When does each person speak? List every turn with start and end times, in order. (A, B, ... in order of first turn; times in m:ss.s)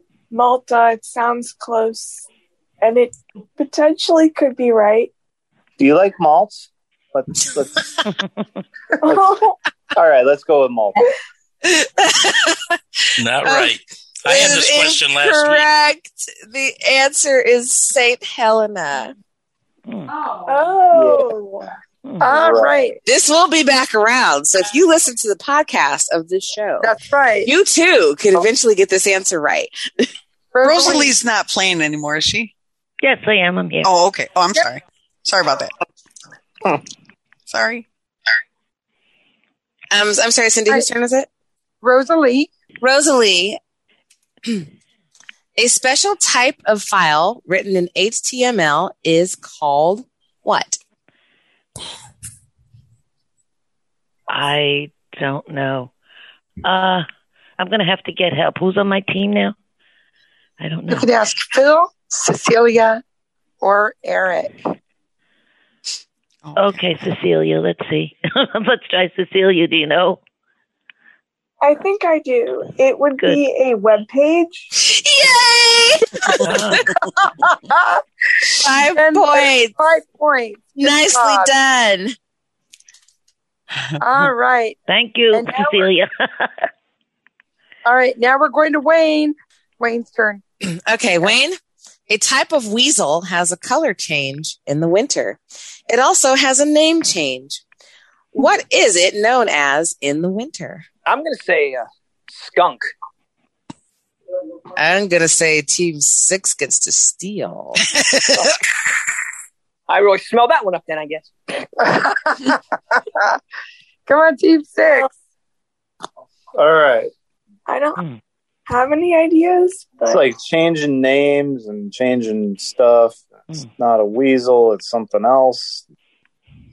0:00.3-0:02.3 A
0:02.8-0:05.1 A
0:05.8-0:07.8 B
0:09.0-0:09.6 A
0:09.1-0:09.4 B
0:10.0-0:11.0 B
0:11.6-0:12.7 C
0:13.2-0:15.7 D
0:13.4-0:13.7 C
0:14.3-0:19.1 C
0:19.9-0:20.1 E
0:20.5-0:21.7 A
0:20.9-0:21.7 B
0:22.2-0:23.0 F
0:22.2-0:23.0 B
0:23.0-0:26.9 C
0:26.8-0:27.5 F
0:27.4-0:29.7 C
0:30.5-0:31.1 F
0:30.6-0:32.5 G
0:33.0-0:33.9 E
0:33.8-0:35.7 G
0:37.5-0:37.8 G
0:39.9-0:41.3 C
0:41.8-0:42.5 F
0:42.8-0:43.6 C
0:45.6-0:50.8 C
0:54.3-0:55.9 E
0:56.6-0:57.1 E
0:57.6-0:59.6 E
1:00.6-1:01.1 E
1:00.9-1:03.0 F
1:03.6-1:04.5 F
1:06.4-1:06.7 G
1:06.6-1:10.2 E
1:11.6-1:14.7 A
1:14.8-1:16.1 C
1:16.4-1:16.9 E
1:17.2-1:18.0 F
1:18.6-1:19.7 C
1:19.0-1:21.5 F
1:20.8-1:22.2 C
1:24.0-1:24.8 F
1:24.9-1:26.7 E
1:25.3-1:25.9 F
1:27.9-1:30.4 F
1:30.6-1:31.6 C
1:32.1-1:37.6 C
1:38.4-1:40.9 C
1:41.1-1:42.9 H
1:44.8-1:47.8 C
1:49.9-1:51.3 H
1:51.8-1:52.6 F
1:54.1-1:55.1 F
1:56.6-1:57.1 B
1:57.7-1:58.0 A
1:58.7-2:00.2 A
2:00.0-2:05.8 B